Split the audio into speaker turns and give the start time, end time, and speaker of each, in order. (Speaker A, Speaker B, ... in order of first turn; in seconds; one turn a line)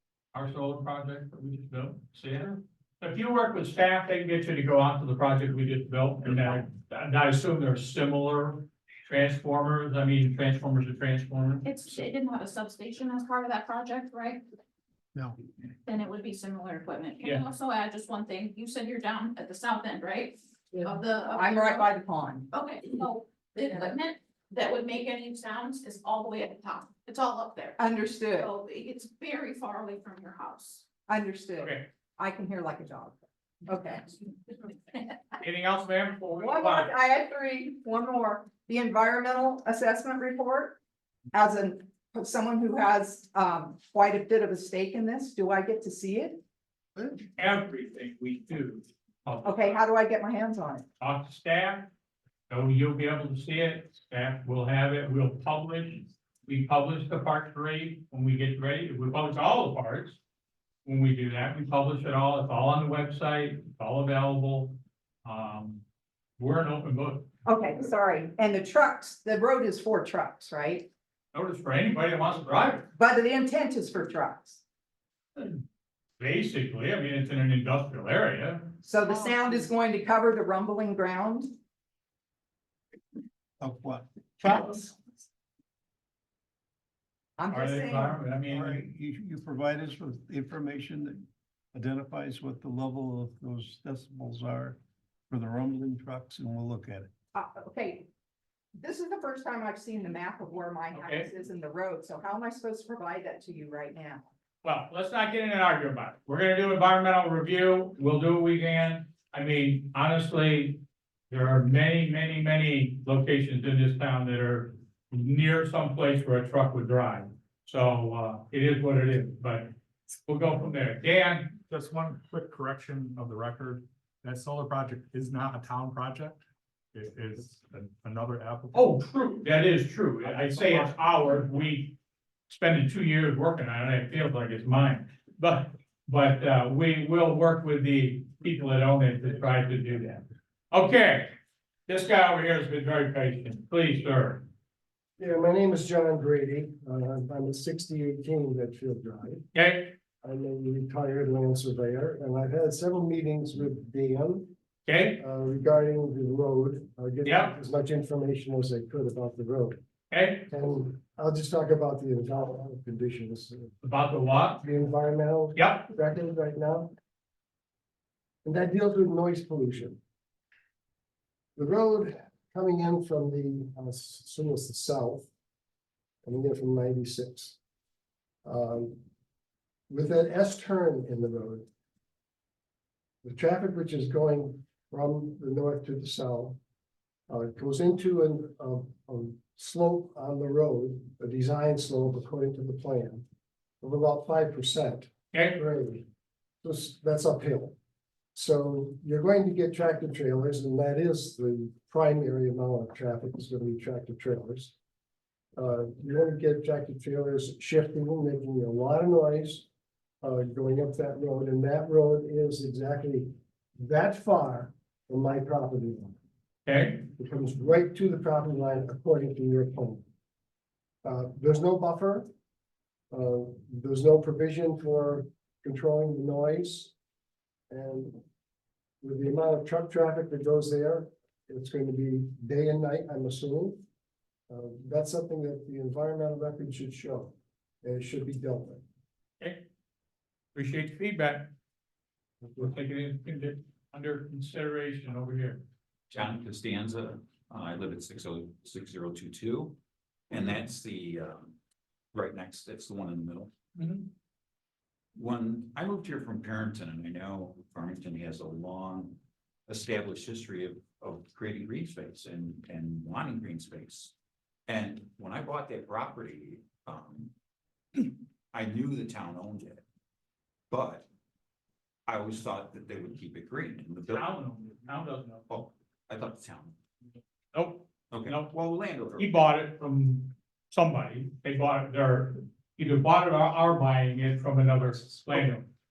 Speaker A: 0.3-11.9
Speaker B: 11.7-14.4
Speaker B: 15.9-21.9
Speaker C: 20.7-22.5
Speaker B: 22.5-30.9
Speaker C: 27.8-28.5
Speaker C: 31.1-34.0
Speaker A: 31.6-31.9
Speaker B: 34.5-35.2
Speaker A: 35.4-36.9
Speaker C: 36.4-40.8
Speaker C: 41.3-46.4
Speaker A: 47.4-49.8
Speaker C: 49.5-50.8
Speaker A: 51.0-51.9
Speaker A: 52.5-60.2
Speaker A: 60.9-65.8
Speaker A: 66.4-67.3
Speaker C: 67.5-70.9
Speaker A: 71.3-72.8
Speaker C: 72.9-74.6
Speaker A: 76.2-79.3
Speaker C: 78.8-81.5
Speaker D: 83.6-85.0
Speaker C: 87.4-88.2
Speaker A: 87.5-88.8
Speaker D: 88.5-94.8
Speaker D: 95.3-97.1
Speaker C: 97.3-98.1
Speaker C: 98.8-104.2
Speaker A: 100.9-101.3
Speaker A: 104.6-119.7
Speaker A: 120.3-121.6
Speaker E: 121.7-126.4
Speaker E: 126.9-128.9
Speaker A: 128.7-131.9
Speaker E: 130.4-130.9
Speaker A: 132.5-141.3
Speaker A: 141.9-144.4
Speaker F: 145.2-149.4
Speaker A: 149.5-149.9
Speaker F: 150.2-154.5
Speaker A: 154.9-155.2
Speaker F: 155.2-159.8
Speaker A: 157.2-157.6
Speaker A: 160.1-160.5
Speaker F: 160.5-163.7
Speaker A: 163.8-164.6
Speaker F: 164.6-166.9
Speaker A: 165.6-165.9
Speaker F: 168.4-170.0
Speaker F: 171.6-175.3
Speaker F: 176.2-177.6
Speaker F: 178.4-179.0
Speaker F: 179.9-181.7
Speaker F: 183.2-186.6
Speaker F: 187.3-193.2
Speaker F: 193.8-196.1
Speaker F: 196.6-197.8
Speaker F: 198.3-204.7
Speaker F: 205.6-209.7
Speaker F: 210.2-216.2
Speaker A: 216.7-217.1
Speaker F: 217.2-220.0
Speaker F: 221.0-222.3
Speaker F: 223.1-226.9
Speaker F: 227.7-228.2
Speaker F: 229.0-233.8
Speaker F: 234.5-238.8
Speaker A: 240.6-241.5
Speaker A: 242.6-245.6
Speaker G: 246.1-249.8
Speaker G: 250.3-251.6
Speaker G: 252.1-253.5
Speaker A: 253.8-254.1
Speaker G: 255.2-264.1
Speaker G: 264.7-267.3
Speaker G: 267.9-269.8
Speaker G: 270.7-271.1
Speaker G: 272.1-274.3
Speaker A: 274.1-275.5
Speaker G: 275.5-276.8
Speaker A: 277.5-278.5
Speaker G: 278.1-279.3
Speaker A: 279.2-285.7